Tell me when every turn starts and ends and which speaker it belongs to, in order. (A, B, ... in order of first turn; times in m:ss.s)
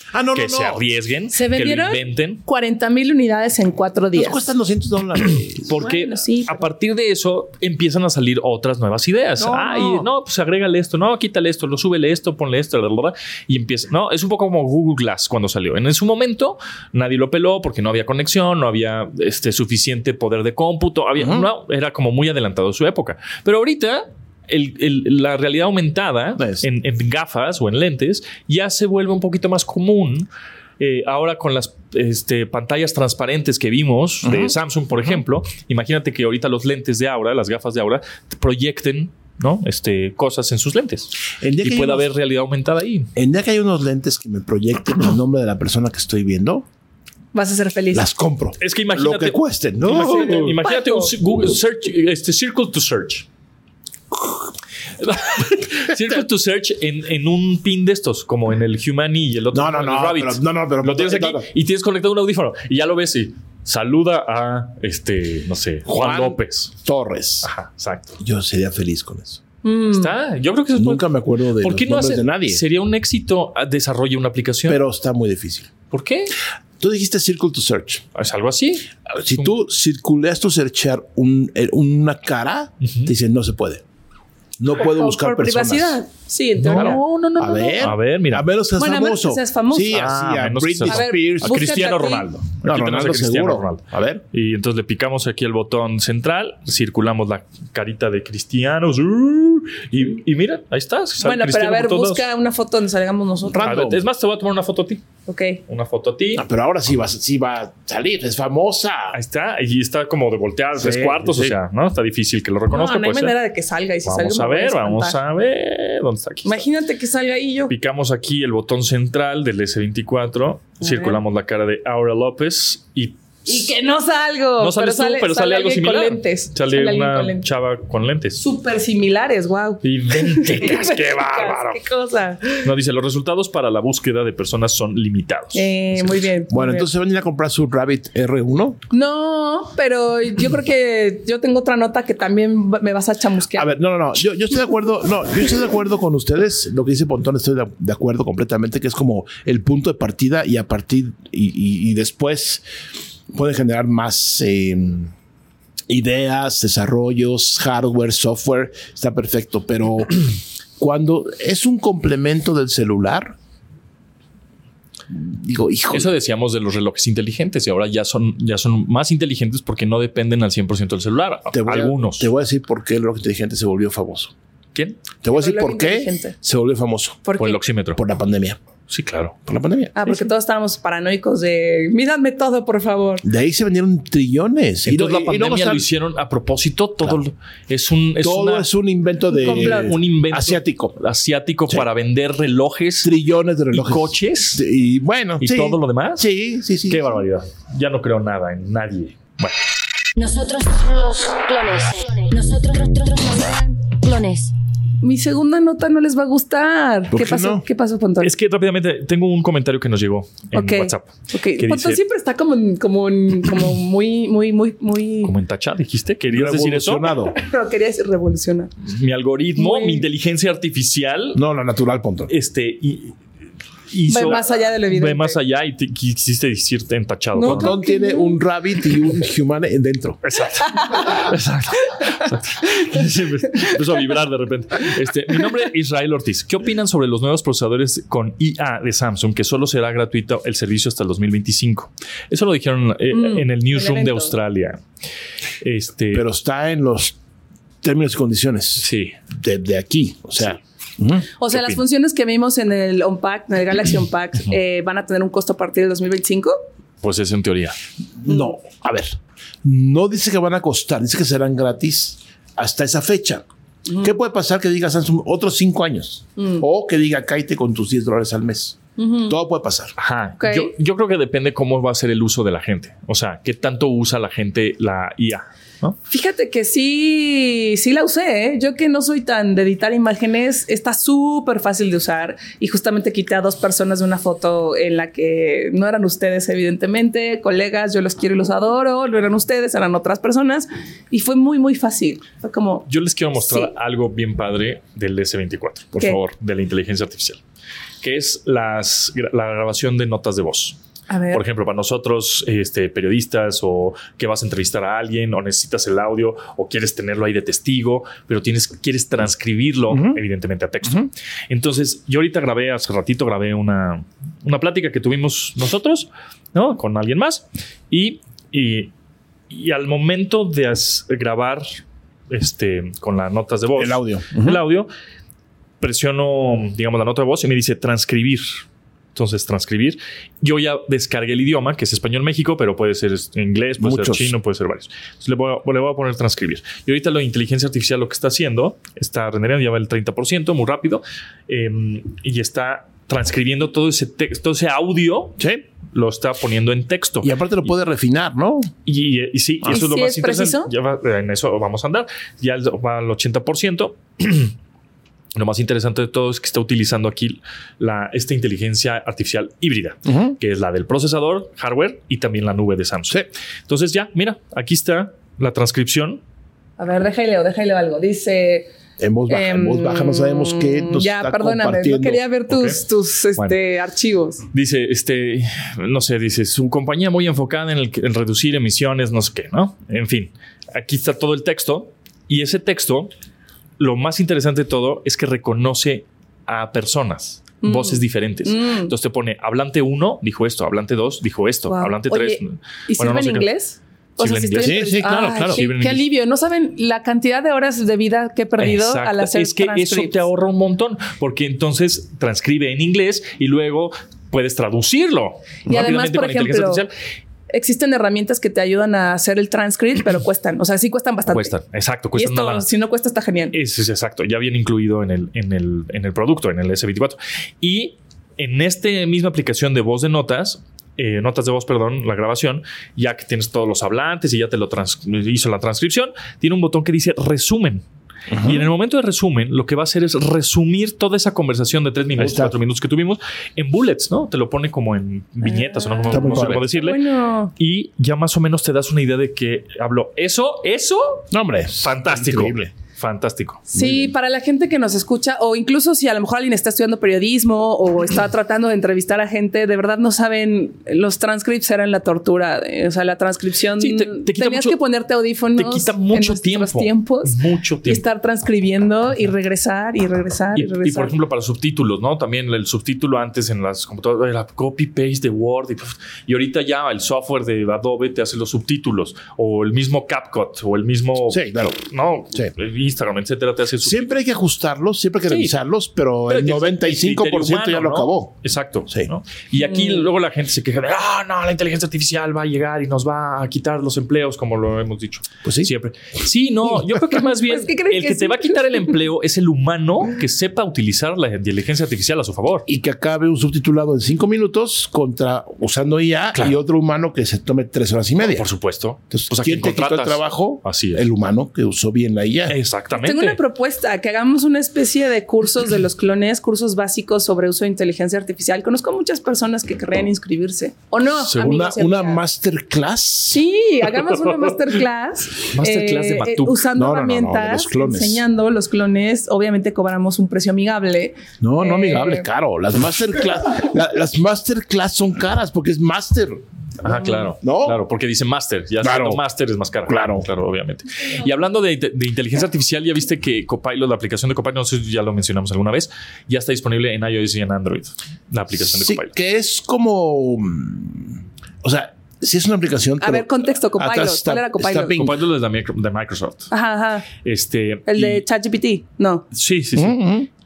0:00.1-0:00.9 A
0:00.3-0:02.4 B
0:01.3-0:04.4 C
0:04.1-0:05.9 A
0:05.6-0:30.3 B
0:05.8-0:06.6 C
0:09.4-0:10.1 C
0:21.2-0:21.5 A
0:26.4-0:26.7 A
0:30.8-0:43.1 B
0:34.2-0:34.6 A
0:41.4-0:42.1 A
0:43.2-0:46.7 A
0:47.3-0:48.1 C
0:47.9-0:50.6 A
0:48.6-0:53.3 B
0:50.6-0:51.1 C
0:55.0-1:06.7 B
0:59.5-1:01.5 A
1:05.9-1:07.5 A
1:07.4-1:08.1 B
1:08.2-1:09.4 A
1:09.6-1:10.1 C
1:09.8-1:14.8 B
1:10.8-1:12.6 A
1:14.7-1:15.7 A
1:15.9-1:16.4 B
1:16.8-1:18.0 A
1:18.2-1:19.5 B
1:19.1-1:23.8 A
1:22.8-1:23.1 B
1:24.6-1:26.0 A
1:24.8-1:27.0 C
1:26.6-1:28.5 B
1:26.7-1:31.8 A
1:28.8-1:30.0 C
1:29.9-1:42.2 B
1:30.9-1:32.3 C
1:32.6-1:34.2 A
1:41.2-1:43.8 C
1:43.5-1:44.0 A
1:43.6-1:45.0 B
1:45.3-1:45.6 C
1:45.7-1:46.4 B
1:46.4-1:49.2 A
1:49.1-1:53.4 B
1:50.8-1:51.6 A
1:52.7-1:55.2 C
1:54.1-1:56.7 B
1:56.4-1:57.7 C
1:57.7-2:03.7 B
2:00.8-2:01.2 C
2:03.5-2:07.4 C
2:04.6-2:08.4 B
2:08.4-2:12.7 C
2:09.8-2:11.8 B
2:12.6-2:16.2 B
2:15.5-2:16.9 C
2:16.5-2:18.8 A
2:18.9-2:23.7 C
2:23.6-2:32.6 A
2:33.3-2:35.1 A
2:35.9-2:40.2 A
2:40.8-2:43.4 A
2:45.1-2:46.1 A
2:45.9-2:52.3 B
2:51.5-2:54.3 A
2:55.2-2:57.2 A
2:55.3-2:56.4 C
2:57.2-2:57.6 C
2:57.4-2:58.0 B
2:58.0-2:58.6 A
2:58.9-2:59.4 B
2:59.5-3:00.1 A
3:00.0-3:03.2 C
3:03.2-3:05.8 A
3:04.9-3:08.7 B
3:08.2-3:11.0 A
3:09.3-3:09.9 C
3:09.4-3:13.1 B
3:13.0-3:17.1 A
3:13.7-3:14.6 B
3:15.4-3:16.3 B
3:16.9-3:19.6 B
3:20.2-3:24.5 D
3:25.0-3:28.3 C
3:27.1-3:27.6 A
3:28.2-3:32.0 B
3:30.5-3:35.3 C
3:35.2-3:37.1 B
3:36.3-3:37.4 A
3:37.3-3:38.7 C
3:38.8-3:41.4 B
3:39.6-3:40.0 C
3:41.3-3:42.3 A
3:42.3-3:43.2 B
3:43.9-3:47.8 B
3:44.1-3:45.4 C
3:47.4-3:48.4 C
3:47.4-3:50.2 A
3:50.2-4:04.8 B
4:03.1-4:04.4 C
4:05.6-4:06.2 B
4:06.1-4:07.2 A
4:07.8-4:11.3 A
4:08.8-4:09.2 B
4:11.4-4:16.6 C
4:11.5-4:11.8 B
4:17.0-4:17.8 B
4:18.2-4:23.5 A
4:24.0-4:29.9 A
4:26.4-4:26.6 C
4:29.0-4:29.3 C
4:30.0-4:36.0 B
4:30.4-4:30.7 C
4:36.1-4:52.9 C
4:52.9-4:57.4 B
4:53.4-4:53.7 C
4:58.0-5:00.8 B
5:01.1-5:01.4 C
5:01.3-5:18.9 B
5:09.9-5:10.2 A
5:10.8-5:11.1 A
5:19.5-5:21.8 B
5:22.3-5:24.9 B
5:23.8-5:24.6 A
5:25.8-5:28.6 B
5:29.2-5:45.4 B
5:33.8-5:34.3 A
5:45.4-5:45.6 A
5:45.9-5:47.4 B
5:47.2-5:48.7 A
5:48.9-5:54.5 B
5:49.7-5:50.7 C
5:55.4-6:06.2 B
6:00.1-6:00.4 A
6:06.8-6:08.7 C
6:09.0-6:12.2 A
6:09.3-6:14.4 C
6:12.5-6:12.8 B
6:14.5-6:23.1 B
6:23.8-6:33.5 B
6:27.6-6:28.9 C
6:31.7-6:40.2 C
6:34.2-6:36.0 B
6:34.6-6:35.6 A
6:38.6-6:46.9 B
6:45.7-6:46.8 C
6:47.5-6:51.5 C
6:51.3-6:52.7 B
6:52.2-6:53.6 C
6:53.5-7:07.8 B
7:08.3-7:08.7 A
7:08.4-7:17.0 B
7:12.2-7:12.6 A
7:15.4-7:17.5 C
7:16.1-7:16.7 A
7:17.6-7:21.3 B
7:21.3-7:22.7 A
7:21.8-7:23.6 B
7:23.7-7:37.4 C
7:23.7-7:24.1 A
7:33.8-7:34.8 B
7:35.6-7:38.0 B
7:37.9-7:41.1 C
7:40.6-7:54.2 B
7:51.3-7:51.8 A
7:53.8-7:58.4 A
7:55.3-7:55.5 B
7:56.3-8:12.7 B
7:59.6-8:00.0 C
8:05.4-8:05.7 A
8:07.4-8:09.0 C
8:12.7-8:18.5 A
8:18.2-8:21.0 B
8:19.1-8:22.6 A
8:22.5-8:23.4 B
8:22.9-8:32.2 C
8:31.4-8:33.4 A
8:33.3-8:42.3 C
8:35.5-8:36.7 B
8:36.8-8:38.2 A
8:41.4-8:46.4 A
8:46.8-8:59.1 B
8:47.4-8:47.8 A
8:48.8-8:49.2 A
8:49.9-8:50.3 A
8:58.6-9:05.2 A
9:03.0-9:05.0 C
9:04.9-9:06.5 B
9:06.5-9:07.1 C
9:07.2-9:08.2 B
9:07.9-9:09.2 C
9:09.3-9:10.0 B
9:09.8-9:10.3 A